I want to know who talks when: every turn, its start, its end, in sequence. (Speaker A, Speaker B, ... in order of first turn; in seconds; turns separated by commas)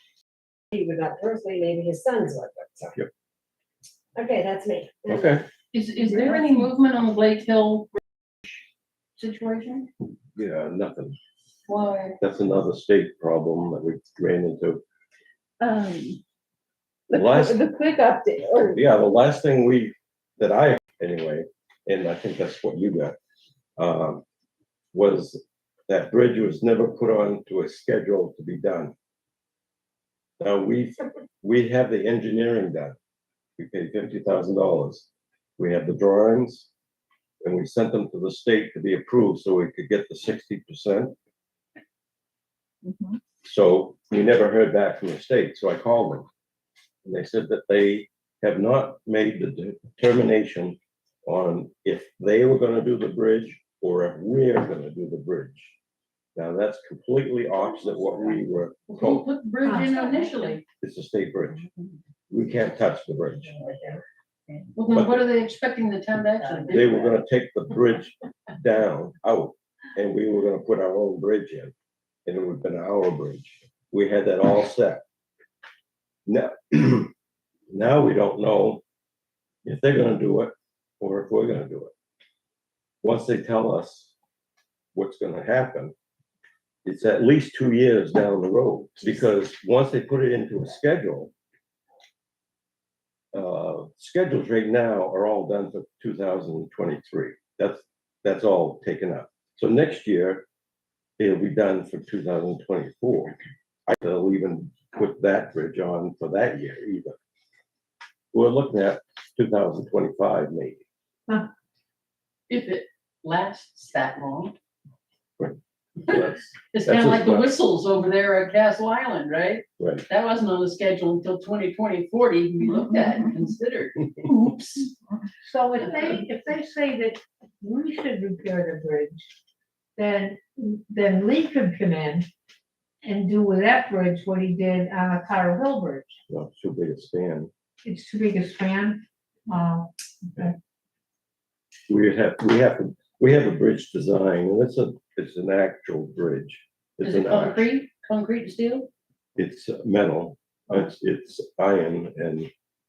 Speaker A: 0.7-3.0, Speaker A: 4.2-5.4, Speaker B: 5.1-5.4, Speaker C: 5.7-7.9, Speaker D: 6.1-6.7, Speaker C: 9.2-9.9, Speaker B: 10.3-11.2, Speaker D: 11.7-12.2, Speaker B: 12.2-14.8, Speaker D: 15.6-16.2, Speaker D: 17.1-18.8, Speaker B: 17.1-17.7, Speaker B: 18.6-23.1, Speaker B: 23.8-24.2, Speaker B: 24.9-28.9, Speaker B: 30.4-32.9, Speaker B: 33.6-35.1, Speaker B: 35.6-36.7, Speaker B: 37.4-41.1, Speaker D: 42.9-43.2, Speaker B: 43.4-46.2, Speaker B: 47.0-55.7, Speaker B: 56.4-59.2, Speaker C: 58.9-60.6, Speaker E: 59.6-60.5, Speaker B: 60.8-61.7, Speaker B: 62.3-63.6, Speaker A: 63.6-64.0, Speaker C: 64.7-67.0, Speaker B: 64.9-65.2, Speaker B: 66.7-71.7, Speaker B: 72.2-75.0, Speaker B: 76.3-77.1, Speaker B: 77.7-78.8, Speaker B: 79.6-81.9, Speaker B: 83.0-84.1, Speaker B: 84.9-85.9, Speaker B: 86.8-91.3, Speaker B: 93.3-100.5, Speaker B: 101.2-103.3, Speaker B: 103.9-107.2, Speaker B: 108.3-110.8, Speaker C: 112.5-114.5, Speaker B: 115.4-117.5, Speaker C: 116.7-124.8, Speaker B: 119.8-120.0, Speaker D: 124.3-124.6, Speaker E: 125.4-129.3, Speaker C: 125.8-126.2, Speaker E: 129.9-132.3, Speaker E: 133.0-136.2, Speaker B: 136.3-137.5, Speaker E: 137.8-140.5, Speaker B: 141.9-147.7, Speaker C: 147.0-148.9, Speaker B: 149.3-152.5